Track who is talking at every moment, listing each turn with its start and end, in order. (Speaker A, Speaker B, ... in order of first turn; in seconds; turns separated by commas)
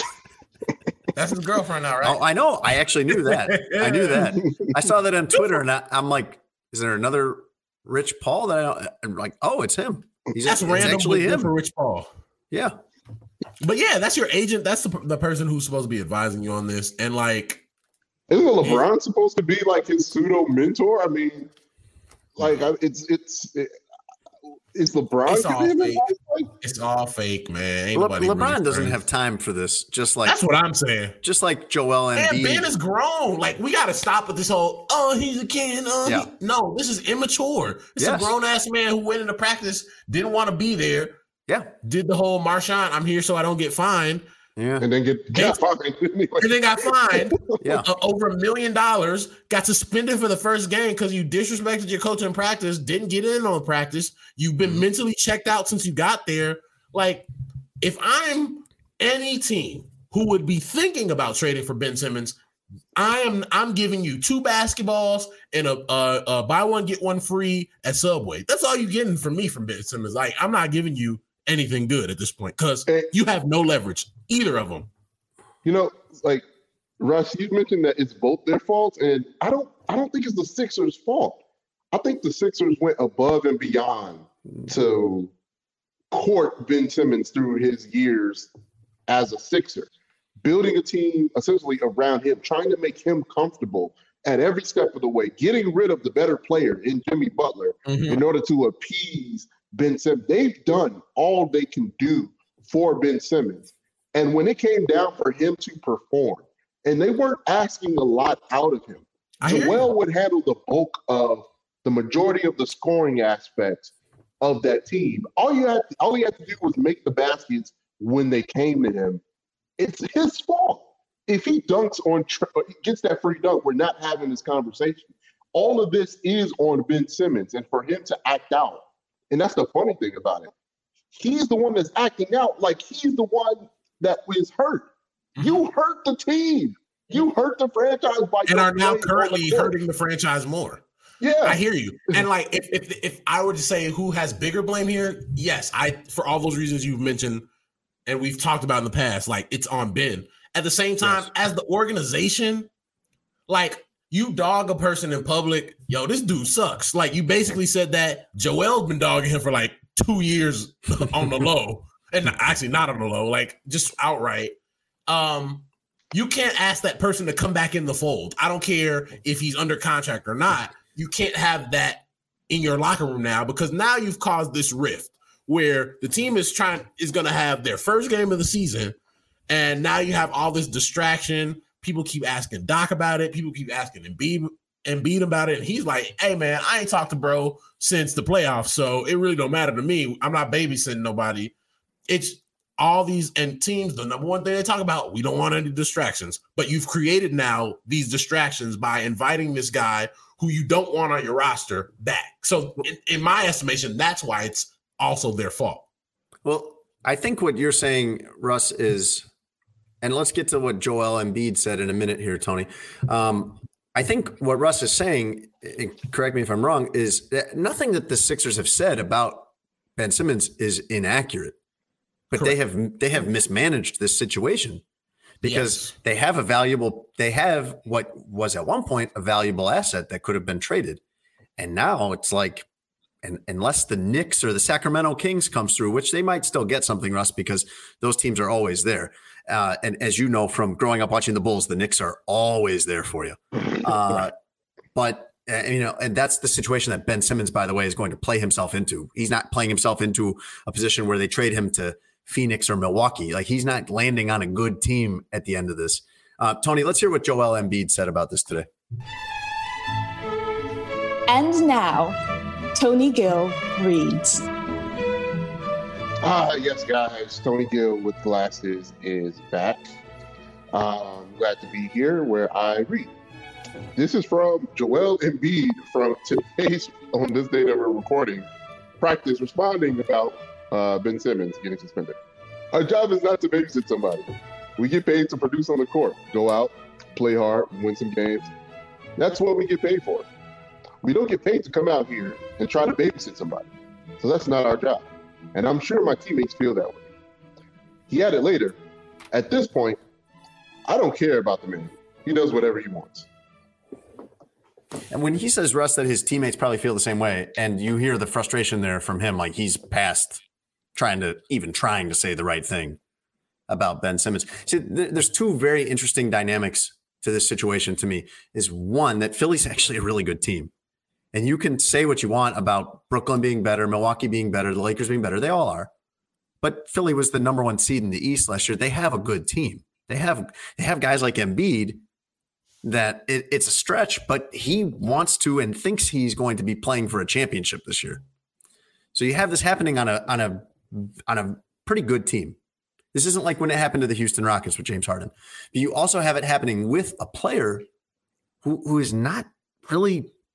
Speaker A: 1.1-2.2, Speaker B: 2.0-11.6, Speaker A: 3.2-4.3, Speaker A: 10.4-12.1, Speaker B: 12.5-12.8, Speaker A: 13.6-17.6, Speaker C: 18.3-21.5, Speaker C: 22.4-23.7, Speaker C: 24.8-26.5, Speaker A: 25.3-26.0, Speaker A: 26.6-29.0, Speaker B: 27.9-30.4, Speaker A: 30.2-31.2, Speaker B: 31.2-32.7, Speaker A: 32.2-41.1, Speaker B: 38.0-38.3, Speaker A: 41.8-44.2, Speaker B: 44.6-44.9, Speaker C: 44.8-46.6, Speaker A: 45.3-45.6, Speaker A: 46.4-57.3, Speaker B: 47.6-47.9, Speaker A: 57.8-62.4, Speaker A: 63.0-74.9, Speaker C: 75.6-76.5, Speaker C: 77.0-81.4, Speaker C: 81.9-85.3, Speaker C: 86.1-88.5, Speaker C: 89.1-89.9, Speaker C: 90.4-119.2, Speaker A: 97.9-98.2, Speaker A: 109.4-109.9, Speaker C: 119.8-130.5, Speaker C: 131.2-134.9, Speaker C: 135.4-139.7, Speaker A: 138.5-140.8, Speaker C: 141.2-141.6, Speaker A: 141.4-147.4, Speaker A: 148.1-152.7, Speaker B: 151.0-151.3, Speaker A: 153.5-164.5, Speaker A: 165.1-178.9, Speaker A: 179.5-191.5, Speaker A: 192.1-205.9, Speaker B: 206.4-209.3, Speaker B: 210.0-221.6, Speaker B: 222.3-224.8, Speaker B: 225.4-231.0, Speaker A: 225.4-225.9, Speaker B: 231.6-232.7, Speaker B: 233.2-244.3, Speaker B: 244.9-258.7, Speaker D: 261.3-262.2, Speaker D: 262.8-264.5, Speaker C: 266.2-269.9, Speaker C: 270.7-273.1, Speaker C: 274.0-278.5, Speaker C: 279.0-282.2, Speaker C: 282.7-288.5, Speaker C: 289.2-290.3, Speaker C: 291.0-293.7, Speaker C: 294.2-297.1, Speaker C: 298.1-298.8, Speaker C: 299.3-300.0, Speaker C: 300.9-303.3, Speaker B: 305.1-310.4, Speaker B: 310.9-313.0, Speaker B: 313.7-320.7, Speaker B: 321.3-325.9, Speaker B: 326.6-332.0, Speaker B: 332.8-338.2, Speaker B: 339.1-342.6, Speaker B: 343.1-347.9, Speaker B: 348.6-350.3